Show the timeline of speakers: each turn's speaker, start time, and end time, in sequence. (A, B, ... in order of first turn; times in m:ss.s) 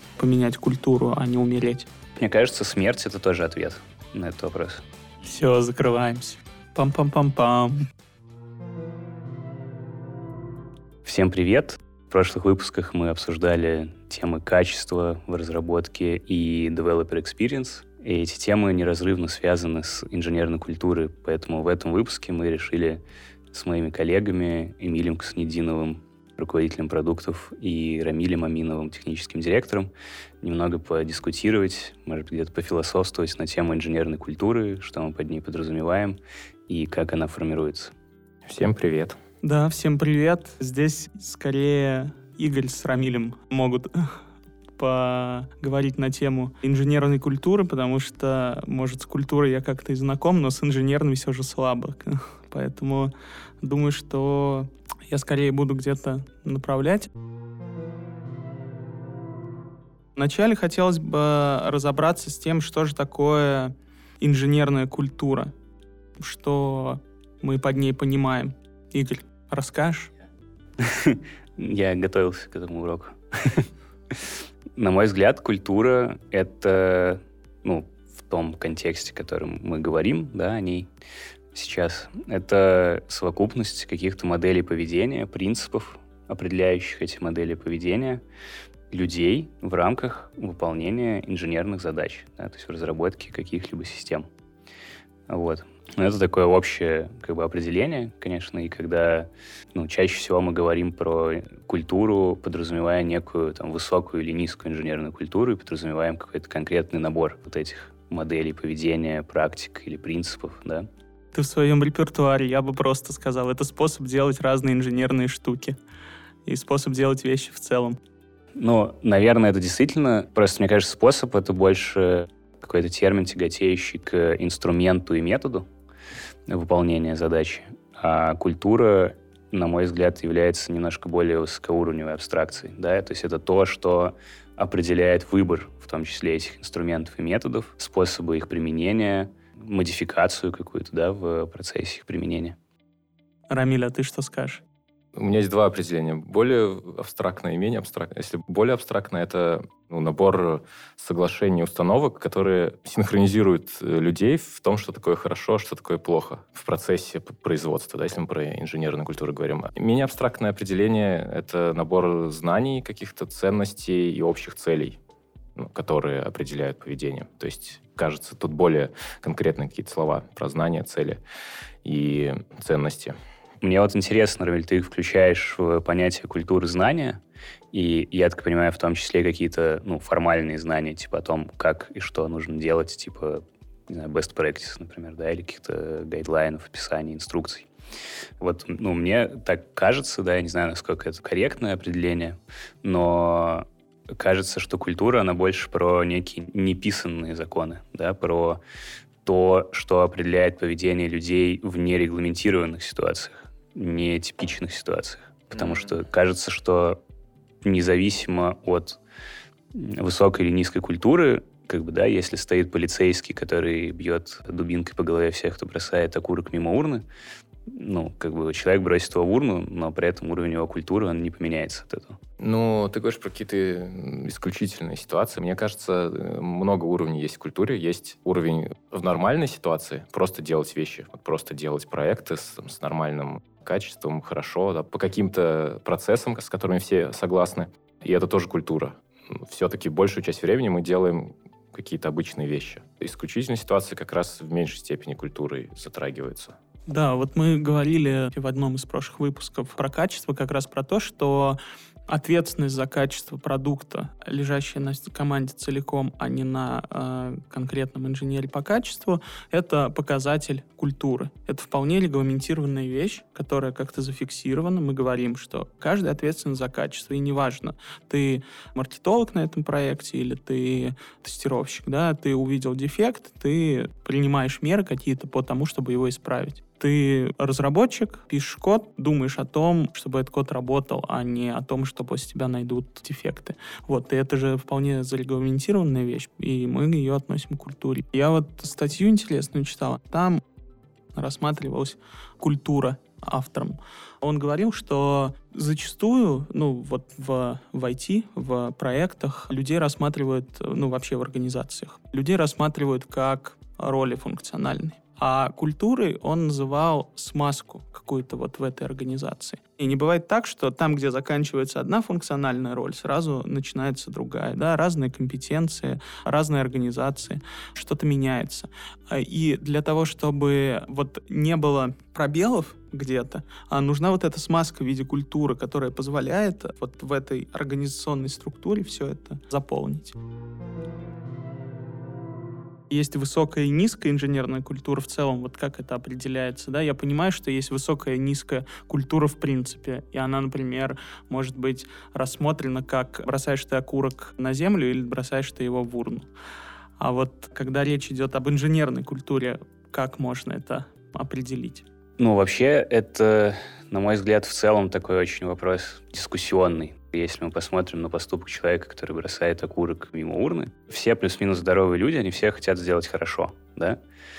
0:00.2-0:01.9 A
0:02.2-0:04.8 B
0:05.2-0:07.9 A
0:11.0-0:23.0 B
0:23.5-0:29.9 B
0:30.4-0:36.2 B
0:36.7-0:37.9 B
0:38.5-0:39.2 C
0:39.4-0:44.2 A
0:44.8-0:57.1 A
1:00.2-1:05.5 A
1:06.2-1:10.1 A
1:10.8-1:20.9 B
1:21.5-1:28.2 B
1:28.9-1:34.3 B
1:35.3-1:50.9 B
1:51.3-1:55.8 A
1:56.4-1:58.0 A
1:58.6-2:05.7 B
2:06.5-2:22.6 B
2:23.5-2:24.6 A
2:25.2-2:45.0 C
2:45.6-2:51.2 C
2:51.8-2:53.2 C
2:53.6-2:57.2 B
2:57.7-3:07.7 B
3:08.4-3:18.6 B
3:19.2-3:27.0 B
3:27.6-3:29.0 B
3:29.7-3:37.0 B
3:37.7-3:42.2 B
3:42.4-4:06.6 C
4:06.9-4:50.4 A
4:51.1-5:30.2 A
5:32.9-5:46.3 A
5:47.0-5:51.8 A
5:52.2-6:04.0 B